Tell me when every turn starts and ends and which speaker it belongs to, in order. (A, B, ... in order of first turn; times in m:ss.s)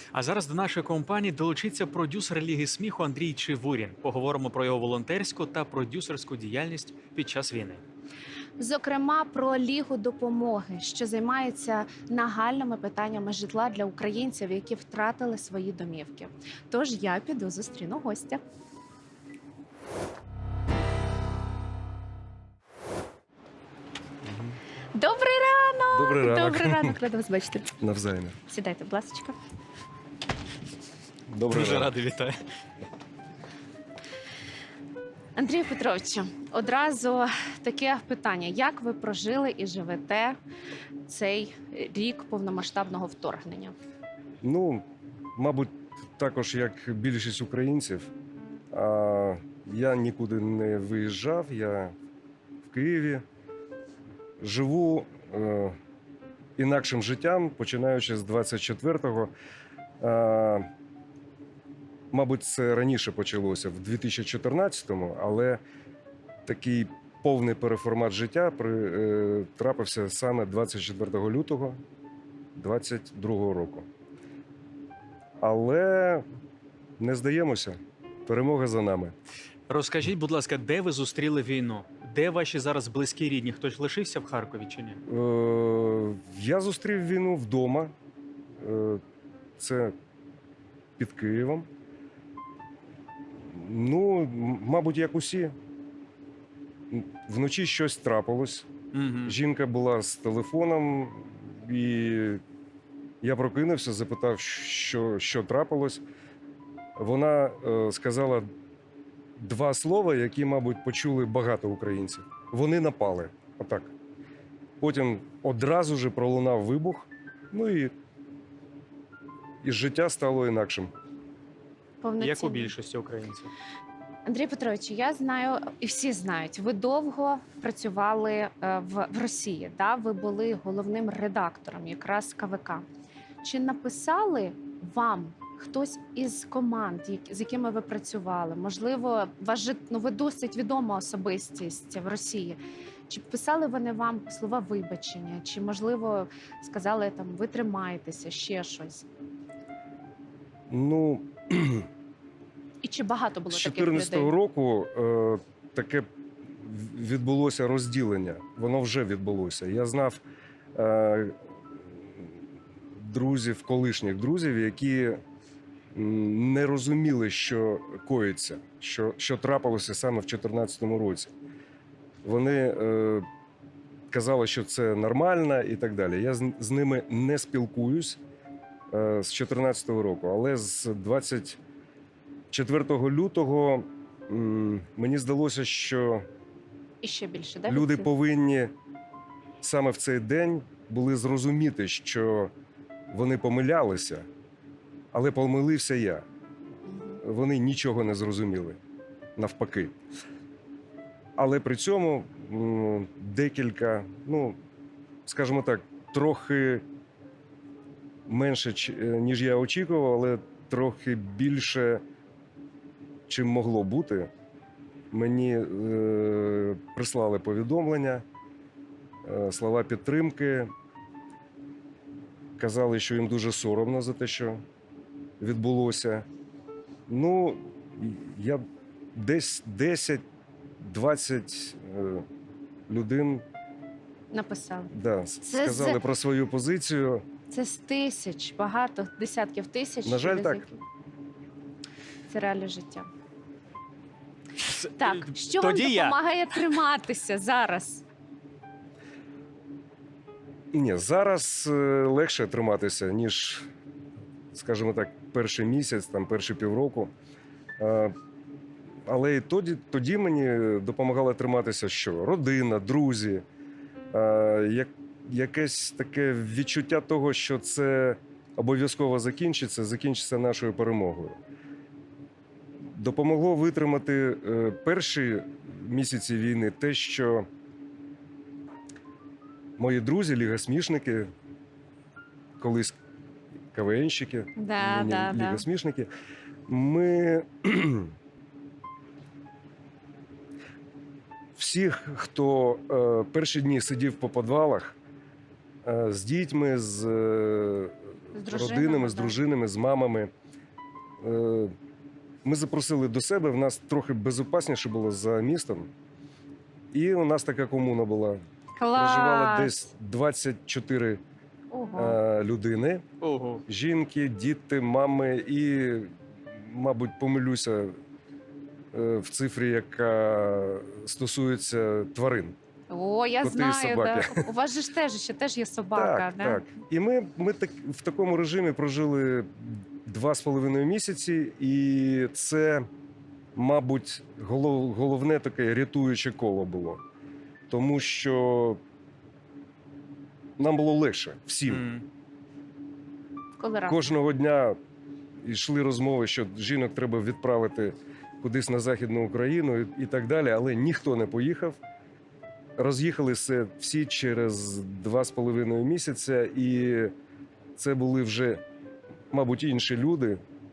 0:00.1-0:07.8 A
0:08.6-0:18.4 B
0:24.3-0:24.6 A
0:24.9-0:27.7 B
0:25.9-0:27.0 C
0:27.8-0:28.4 C
0:28.5-0:29.3 B
0:31.3-0:31.9 C
0:31.5-0:32.4 A
0:35.4-0:40.4 B
0:41.0-0:43.7 B
0:44.4-0:44.8 C
0:45.4-0:48.1 C
0:48.7-0:51.9 C
0:52.6-0:53.2 C
0:54.4-0:55.8 C
0:56.6-0:59.3 C
1:00.0-1:00.6 C
1:02.1-1:05.6 C
1:06.4-1:11.8 C
1:12.5-1:13.8 C
1:15.4-1:16.2 C
1:17.0-1:19.1 C
1:19.7-1:25.0 A
1:25.0-1:27.9 C
1:28.6-1:29.0 C
1:29.6-1:29.9 C
1:31.0-1:31.7 C
1:33.4-1:35.5 C
1:36.9-1:38.7 C
1:38.9-1:39.4 A
1:39.2-1:42.4 C
1:43.2-1:46.0 C
1:47.0-1:48.5 C
1:49.4-1:53.9 C
1:54.8-1:57.9 C
1:59.6-2:00.9 C
2:02.0-2:02.7 B
2:02.2-2:03.5 A
2:04.2-2:12.8 B
2:13.4-2:29.0 B
2:30.7-2:31.9 C
2:32.8-2:34.3 B
2:33.5-2:40.2 C
2:40.7-2:41.3 C
2:43.0-2:45.2 C
2:45.9-2:51.3 C
2:52.2-2:53.2 C
2:54.1-2:58.2 C
2:58.9-3:01.6 C
3:02.5-3:06.2 C
3:07.0-3:08.1 B
3:07.7-3:08.7 C
3:09.6-3:12.5 C
3:13.1-3:14.2 C
3:15.1-3:16.2 C
3:16.9-3:17.2 B
3:17.2-3:18.8 C
3:19.4-3:19.9 C
3:21.4-3:24.6 C
3:25.2-3:26.8 C
3:28.3-3:32.0 C
3:33.3-3:34.3 C
3:35.1-3:38.2 C
3:39.2-3:40.7 C
3:42.6-3:44.6 C
3:45.4-3:46.2 C
3:47.1-3:48.6 C
3:49.1-3:50.2 C
3:50.8-3:52.2 C
3:52.9-3:53.4 C
3:54.3-3:54.9 B
3:54.9-3:57.2 C
3:55.4-3:56.0 B
3:57.5-4:00.8 B
4:00.0-4:00.6 C
4:02.3-4:03.1 B
4:04.6-4:06.2 A
4:05.0-4:08.0 B
4:10.7-4:13.7 C
4:14.5-4:17.1 C
4:17.8-4:18.1 C
4:19.0-4:23.4 C
4:24.1-4:31.4 C
4:32.9-4:37.4 C
4:39.8-4:41.3 C
4:42.6-4:43.0 C
4:43.7-4:46.1 C
4:44.6-4:45.6 B
4:46.7-4:48.1 C
4:51.6-4:54.9 C
4:55.8-4:57.9 C
4:58.3-4:59.4 B
4:58.4-5:00.3 C
5:01.2-5:01.7 C
5:02.4-5:05.9 C
5:06.9-5:08.4 C
5:08.8-5:09.8 B
5:08.9-5:11.2 C
5:11.7-5:12.2 B
5:11.9-5:13.0 C
5:13.2-5:13.6 A
5:13.7-5:17.9 C
5:18.9-5:22.5 C
5:22.9-5:26.6 B
5:23.4-5:24.4 C
5:25.9-5:32.8 C
5:33.6-5:37.0 C
5:37.7-5:38.8 C
5:40.6-5:41.9 C
5:41.7-5:42.0 A
5:43.6-5:44.1 B
5:43.9-5:44.8 C
5:45.4-5:51.8 C
5:52.8-5:57.1 C
5:57.8-5:58.6 C
5:59.3-6:00.4 C